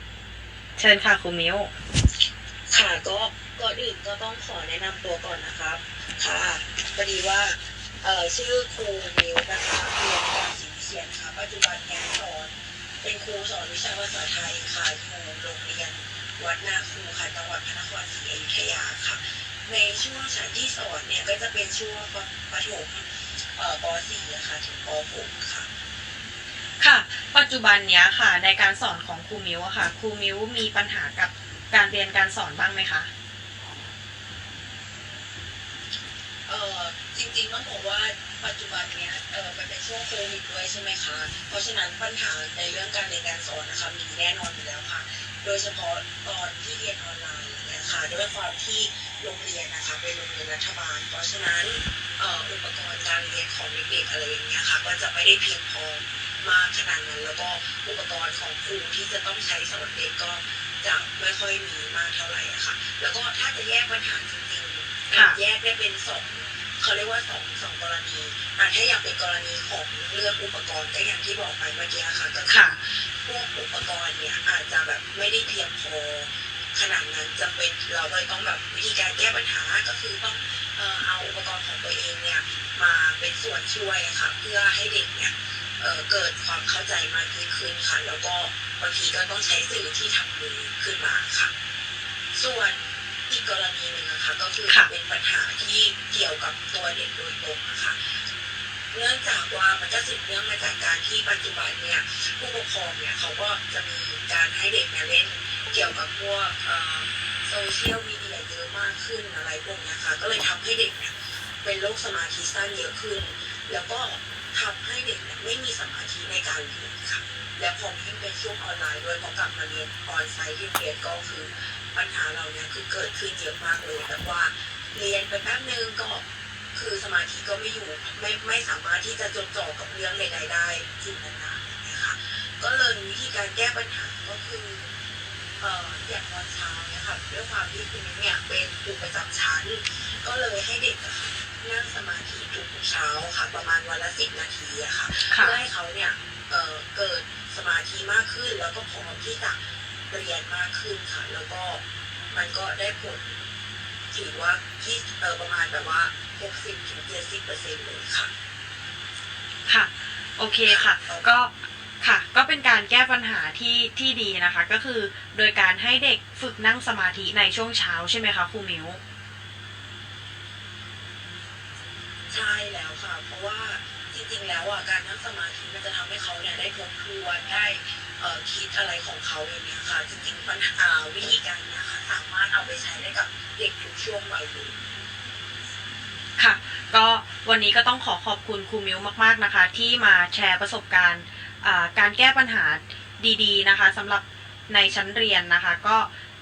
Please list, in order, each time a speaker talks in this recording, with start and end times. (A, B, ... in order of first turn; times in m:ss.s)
0:00.8-0:01.7 A
0:02.7-0:25.7 B
0:26.8-0:33.1 A
0:36.5-1:31.5 B
1:05.1-1:05.4 A
1:12.5-1:12.8 A
1:32.3-1:38.2 B
1:38.9-2:14.9 B
2:15.6-2:33.5 B
2:25.3-2:25.6 A
2:34.1-2:38.3 B
2:39.7-2:49.0 A
2:40.6-2:41.3 B
2:52.3-3:04.8 B
3:06.4-3:16.1 A